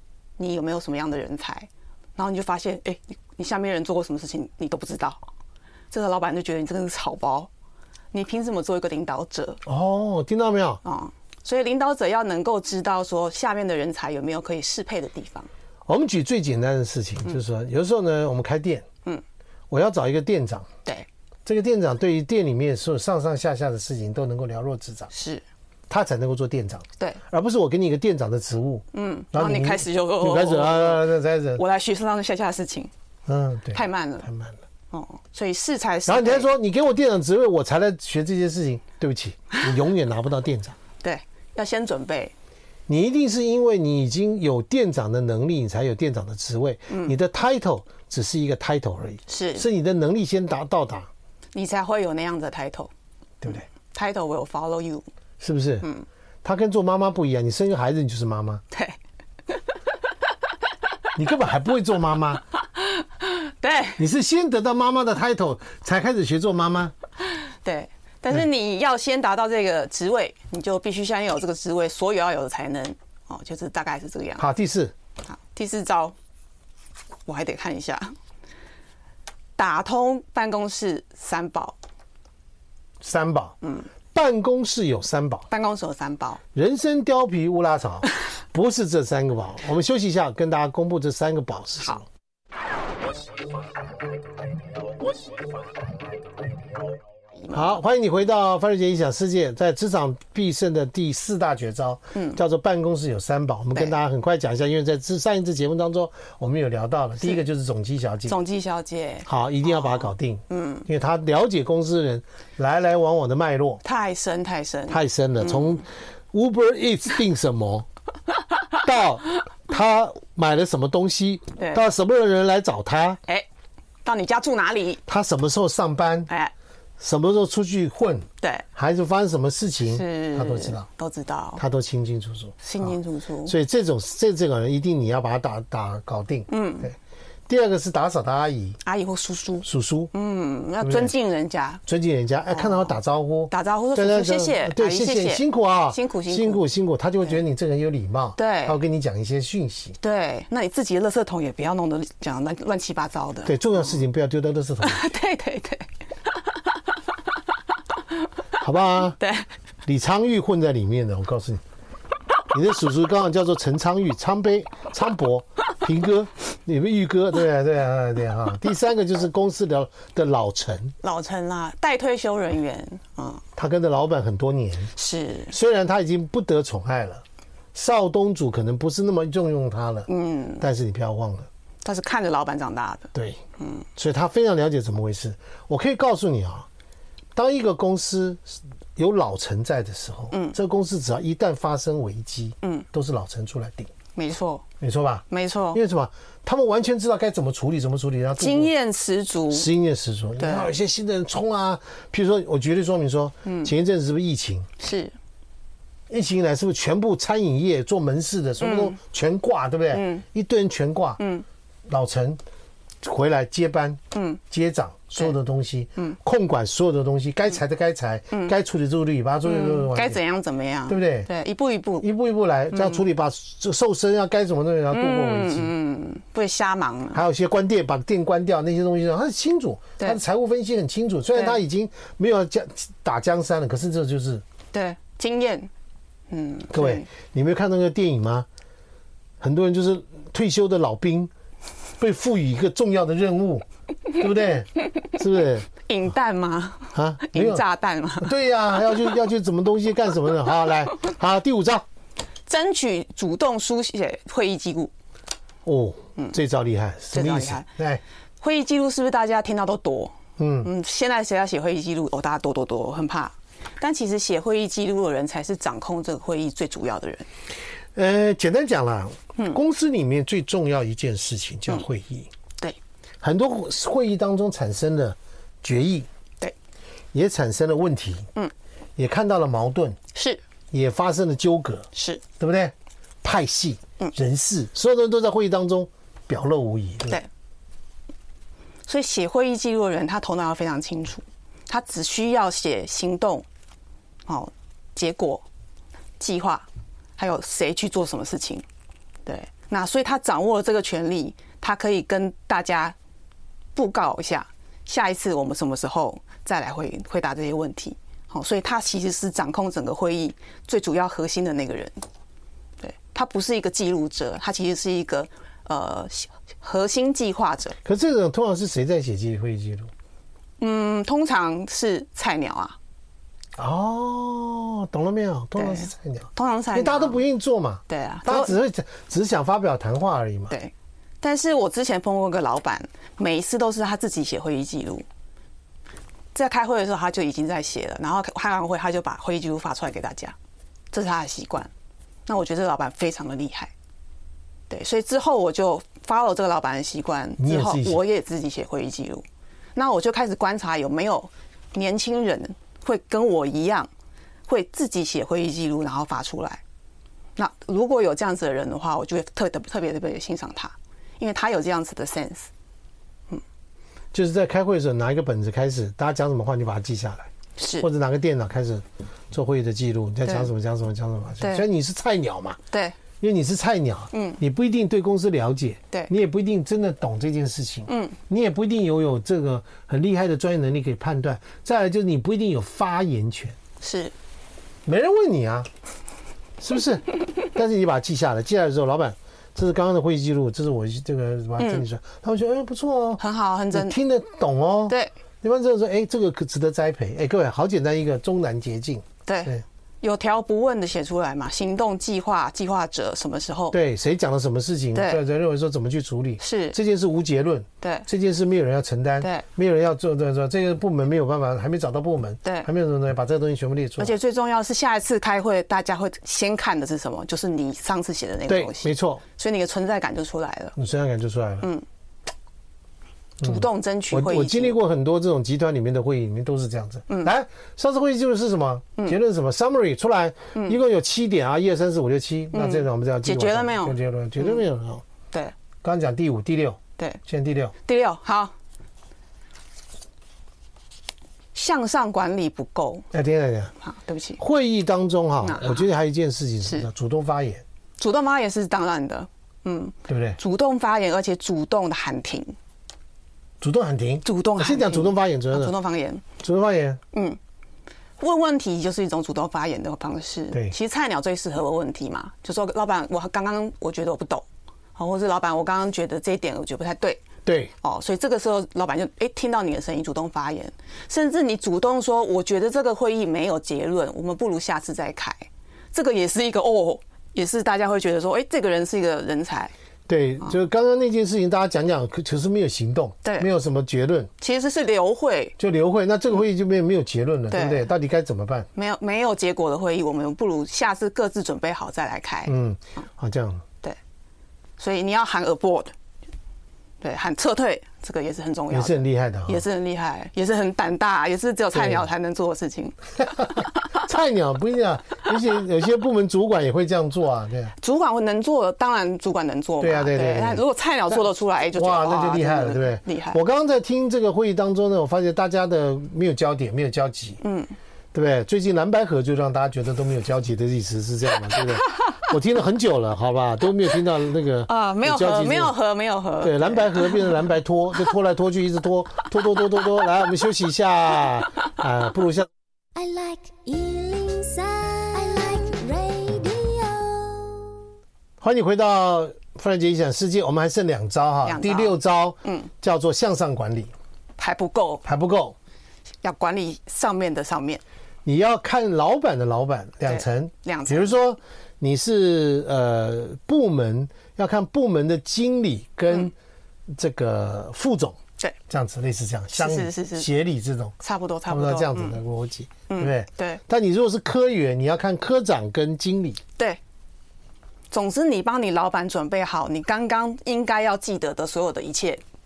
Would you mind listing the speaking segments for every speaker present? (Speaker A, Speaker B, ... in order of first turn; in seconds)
Speaker A: 0.4-5.2, 5.9-7.5, 8.1-9.6, 10.8-15.5, 25.1-25.4, 28.9-32.9, 33.7-34.3, 34.9-36.5, 41.0-42.3, 46.9-47.2, 49.3-49.7, 51.5-52.9, 53.5-55.1, 58.7-59.0, 62.8-64.0, 67.6-74.5, 75.3-76.2, 77.3-78.1, 79.6-81.8, 83.6-83.9, 85.5-86.4, 97.4-97.8, 102.1-102.4, 108.3-110.9, 113.8-115.8, 121.6-121.9, 124.0-125.0, 126.3-126.5, 129.8-131.6, 132.6-133.6, 136.5-136.9, 138.8-141.8, 142.5-142.9, 143.5-146.6, 148.4-148.8, 150.0-153.9, 154.8-156.6, 159.2-159.5, 171.0-173.4, 174.9-175.5, 180.1-180.7, 181.8-183.8, 190.3-190.6, 194.2-194.7, 195.3-195.8, 198.4-199.7, 200.4-200.7, 203.4-203.7, 204.8-205.1, 208.6-209.0, 209.9-210.2, 211.2-211.4, 214.1-214.4, 219.4-222.1, 222.7-223.0, 224.9-227.2, 234.7-235.7, 236.3-237.1, 245.8-248.3, 252.5-254.9, 257.1-257.7, 258.4-267.3, 280.1-280.4, 281.9-282.2, 288.9-293.5, 294.3-295.4, 296.2-296.7, 297.2-298.6, 299.3-302.9, 303.8-312.0, 312.8-317.8, 320.6-322.8, 325.6-327.2, 327.9-328.6, 330.5-335.1, 336.3-340.4, 340.9-341.7, 342.3-343.7, 344.7-353.9, 354.5-356.6, 357.4-362.5, 367.6-367.9, 371.4-371.7, 372.7-373.0, 374.1-374.4, 377.9-378.2, 383.8-384.1, 391.6-391.8, 393.2-394.0, 399.3-403.8, 404.9-405.2, 406.4-406.8, 407.8-408.1, 409.2-409.5, 414.0-420.8, 423.4-424.8, 427.1-427.3, 432.5-434.6, 437.8-438.5, 441.5-443.1, 443.8-444.4, 445.4-445.9, 448.0-452.6, 454.2-456.2, 457.1-457.4, 458.2-467.2, 467.8-479.7, 483.2-483.5, 484.4-485.6, 487.5-487.9, 488.8-492.5, 494.8-495.9, 497.0-503.6, 507.8-513.4, 517.4-517.7, 521.6-522.2, 524.7-527.4, 541.5-542.7, 544.4-545.0, 546.2-547.8, 550.1-551.1, 559.5-560.3, 561.0-562.2, 562.9-563.6, 567.9-572.2
Speaker B: 9.7-10.8, 15.9-18.9, 19.7-20.7, 21.5-25.1, 25.9-31.6, 33.3-34.6, 36.1-40.8, 42.9-51.1, 55.4-55.9, 56.4-58.6, 61.2-62.4, 64.0-66.9, 74.4-74.9, 83.0-83.6, 84.1-85.5, 86.5-92.0, 97.5-108.4, 109.3-113.8, 114.9-117.9, 118.8-123.2, 125.1-126.3, 127.0-130.9, 131.6-132.9, 133.5-136.9, 137.5-138.8, 139.6-140.1, 140.8-141.1, 141.9-150.0, 153.5-155.0, 158.6-159.2, 159.8-161.6, 162.5-170.9, 173.6-174.9, 175.5-180.1, 180.6-181.5, 183.1-183.4, 184.0-186.7, 187.3-193.9, 194.8-198.7, 199.5-204.7, 206.1-211.2, 211.9-212.4, 213.0-214.0, 214.5-220.2, 220.9-221.3, 222.0-225.7, 227.1-234.4, 236.7-238.5, 239.4-241.3, 242.0-245.7, 246.9-247.6, 248.2-251.8, 255.7-258.0, 260.4-260.7, 267.9-272.3, 273.2-276.1, 277.1-278.3, 279.0-280.0, 280.7-287.2, 317.9-319.9, 323.6-330.6, 347.4-348.0, 364.1-367.3, 367.8-372.6, 373.2-383.6, 384.9-385.7, 386.6-393.2, 393.7-399.6, 403.7-414.2, 418.5-419.2, 420.8-421.7, 423.4-435.0, 435.8-437.7, 443.1-443.7, 444.4-447.6, 450.1-450.4, 453.6-455.8, 456.4-457.0, 467.5-467.7, 480.1-484.3, 485.6-488.7, 492.5-493.6, 498.7-499.6, 501.7-502.1, 503.4-507.7, 509.8-510.6, 511.7-517.4, 518.1-525.8, 526.4-532.5, 538.4-543.9, 545.0-545.6, 548.2-556.3, 556.9-558.2, 558.7-561.0, 561.5-566.4
Speaker C: 533.0-537.8